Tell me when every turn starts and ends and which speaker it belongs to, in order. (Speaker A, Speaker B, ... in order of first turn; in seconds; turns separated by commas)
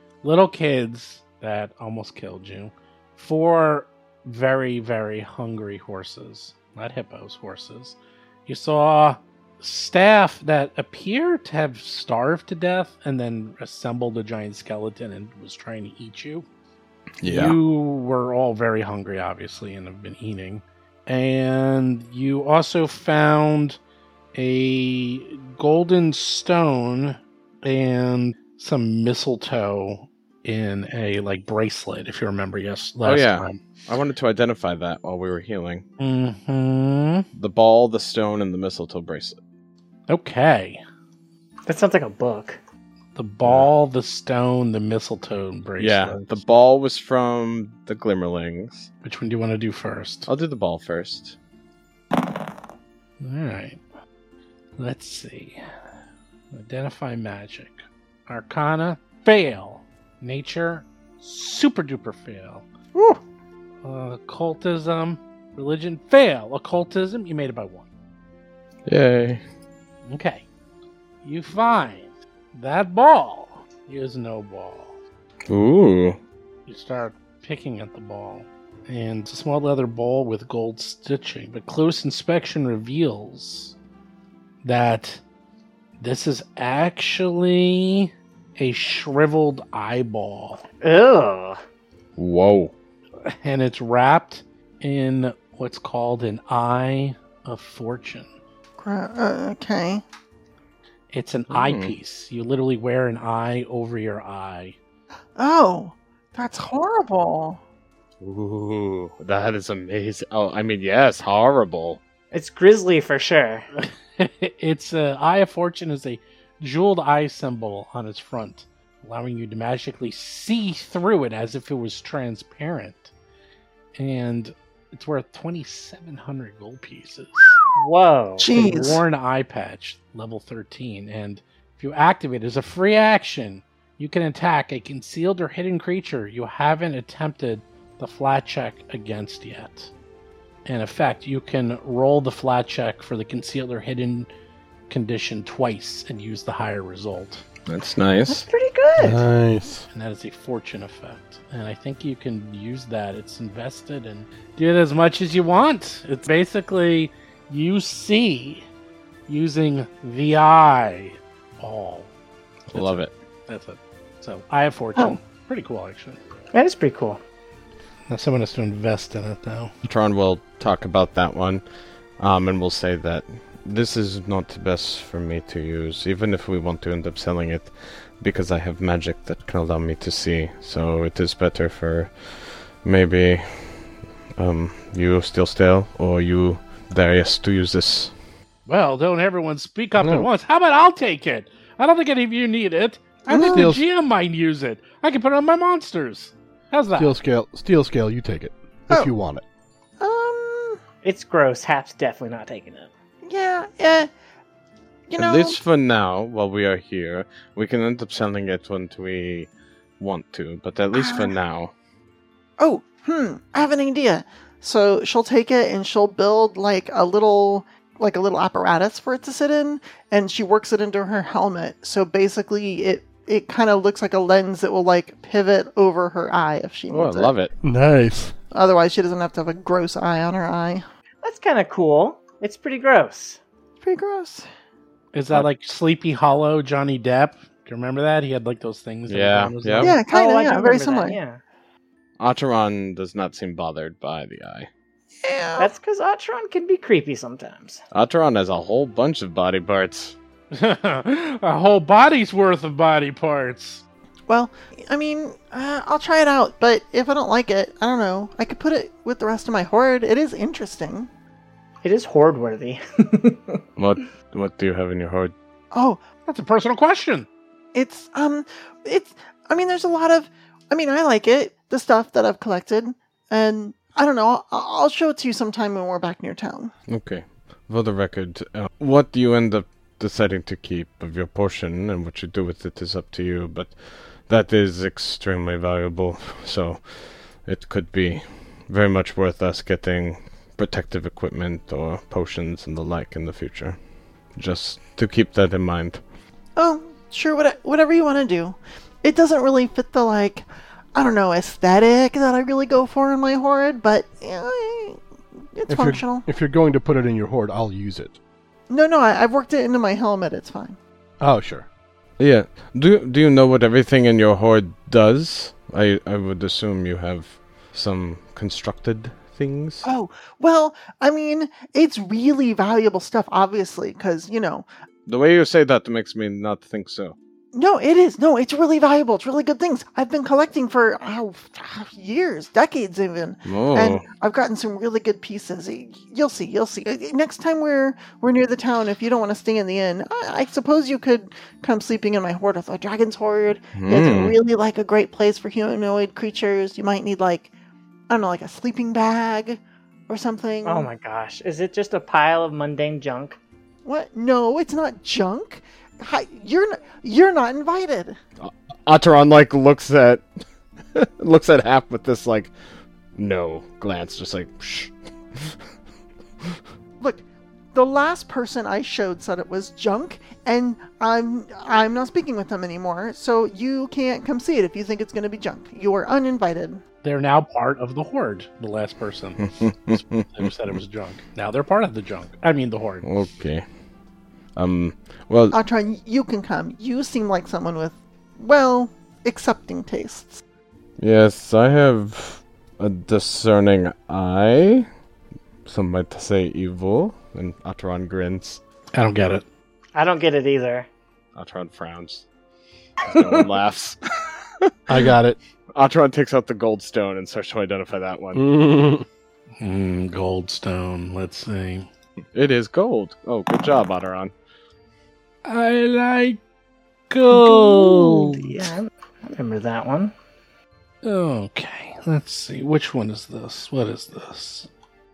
Speaker A: 0.2-16.4, Speaker B: 17.2-17.6, Speaker A: 17.2-23.8, Speaker A: 24.3-33.6, Speaker B: 33.0-35.9, Speaker A: 36.0-37.3, Speaker B: 37.3-39.4, Speaker A: 40.1-40.8, Speaker C: 41.7-42.6, Speaker A: 43.2-46.4, Speaker B: 43.5-43.7, Speaker B: 45.8-48.9, Speaker A: 49.0-50.3, Speaker B: 50.3-51.4, Speaker A: 53.2-53.8, Speaker A: 54.8-55.6, Speaker A: 56.5-62.6, Speaker D: 63.0-63.2, Speaker A: 63.8-67.9, Speaker B: 68.9-69.4, Speaker A: 70.1-70.4, Speaker A: 71.2-75.0, Speaker B: 75.5-76.2, Speaker A: 76.7-83.8, Speaker A: 84.6-85.2, Speaker A: 86.0-90.6, Speaker C: 90.8-91.6, Speaker B: 92.2-92.7, Speaker A: 93.2-98.3, Speaker D: 98.8-100.0, Speaker A: 101.1-104.8, Speaker B: 101.5-101.9, Speaker D: 105.4-107.6, Speaker B: 108.2-112.0, Speaker C: 112.3-113.7, Speaker A: 113.8-123.1, Speaker A: 124.0-127.6, Speaker C: 127.8-128.6, Speaker D: 128.4-129.0, Speaker A: 128.5-139.9, Speaker A: 140.7-144.3, Speaker A: 144.9-147.4, Speaker B: 147.7-148.5, Speaker C: 148.3-149.2, Speaker E: 149.0-149.9, Speaker A: 149.9-158.7, Speaker A: 159.3-162.1, Speaker B: 162.7-163.1, Speaker A: 162.7-166.2, Speaker C: 166.5-167.2, Speaker A: 168.1-169.7, Speaker B: 169.8-171.6, Speaker B: 172.2-188.1, Speaker A: 188.7-197.2, Speaker E: 190.0-190.3, Speaker D: 193.3-193.7, Speaker E: 193.3-193.8, Speaker E: 196.9-199.4, Speaker D: 200.0-200.8, Speaker C: 201.0-202.9, Speaker D: 203.3-204.1, Speaker D: 205.1-205.6, Speaker B: 205.2-211.7, Speaker D: 210.9-211.3, Speaker D: 212.6-227.3, Speaker B: 226.9-227.5, Speaker E: 227.6-228.3, Speaker D: 228.5-230.8, Speaker C: 231.2-233.4, Speaker D: 233.8-234.4, Speaker A: 235.1-240.0, Speaker B: 239.1-239.9, Speaker D: 239.8-241.2, Speaker C: 240.0-241.4, Speaker B: 242.2-244.7, Speaker D: 245.2-245.7, Speaker C: 245.6-247.8, Speaker B: 247.9-250.2, Speaker A: 250.5-253.8, Speaker D: 254.3-261.1, Speaker C: 261.8-263.6, Speaker B: 263.8-265.3, Speaker D: 265.7-266.0, Speaker A: 266.3-267.3, Speaker D: 267.7-276.7, Speaker B: 276.9-293.8, Speaker B: 294.4-296.0, Speaker D: 296.6-305.0, Speaker D: 305.5-306.3, Speaker E: 305.7-308.2, Speaker D: 308.7-310.8, Speaker E: 311.2-311.7, Speaker B: 312.2-319.9, Speaker D: 319.8-324.7, Speaker B: 325.1-327.2, Speaker D: 327.5-347.5, Speaker B: 333.5-334.1, Speaker B: 343.7-344.4, Speaker D: 348.1-350.9, Speaker C: 350.6-353.4, Speaker D: 353.9-358.2, Speaker B: 358.4-360.2, Speaker B: 360.9-362.5, Speaker B: 363.2-365.6, Speaker D: 367.0-376.8, Speaker A: 377.0-383.1, Speaker B: 379.5-380.5, Speaker B: 383.0-383.6, Speaker B: 384.6-385.6, Speaker D: 385.5-390.4, Speaker B: 391.0-394.9, Speaker B: 395.7-398.6, Speaker A: 398.9-399.4, Speaker C: 399.9-400.9, Speaker B: 401.4-402.2, Speaker B: 403.1-404.0, Speaker E: 404.9-405.4, Speaker B: 405.8-408.4, Speaker E: 408.3-409.1, Speaker A: 409.6-411.9, Speaker B: 412.3-414.3, Speaker A: 415.4-416.4, Speaker A: 417.1-418.6, Speaker C: 417.3-420.1, Speaker A: 421.0-424.7